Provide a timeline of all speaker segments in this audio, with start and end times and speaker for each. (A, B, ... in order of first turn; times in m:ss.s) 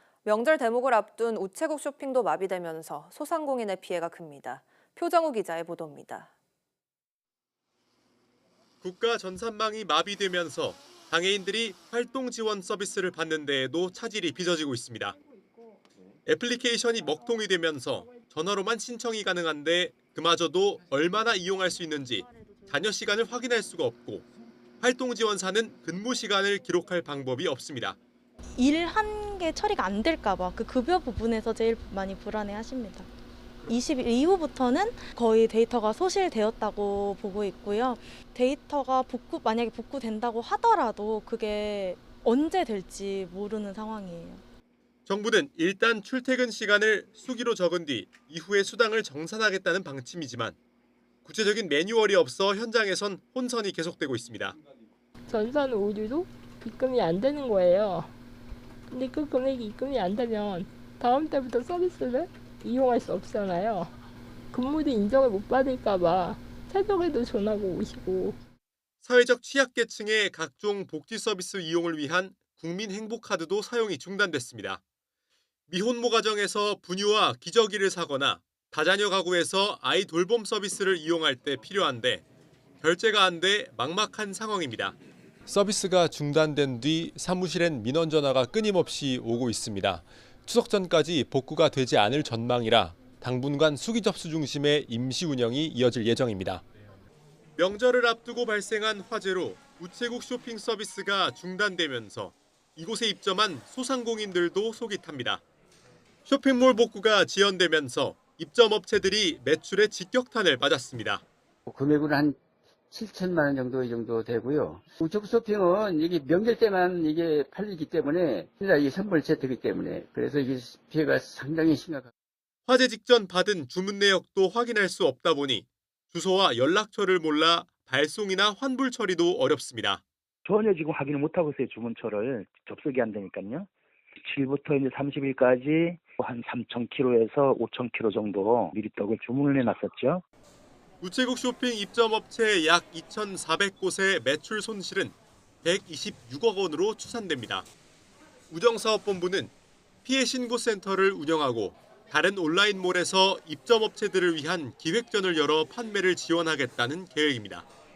0:00.2-0:06.3 A
0:08.8-0:15.2 B
0:16.3-0:24.3 B
0:24.8-0:28.0 B
0:28.6-0:33.1 C
0:33.6-0:44.4 C
0:45.1-0:50.6 B
0:51.2-0:54.6 B
0:55.3-0:58.1 D
0:58.9-1:03.9 D
1:04.5-1:08.4 D
1:09.0-1:14.8 B
1:15.7-1:22.2 B
1:22.8-1:36.6 B
1:37.6-1:45.4 B
1:46.3-1:51.2 B
1:51.7-1:52.4 E
1:52.9-2:02.1 E
2:02.7-2:10.0 B
2:10.4-2:13.7 F
2:14.2-2:20.2 F
2:21.0-2:27.7 B
2:28.5-2:29.5 B
2:30.0-2:37.7 B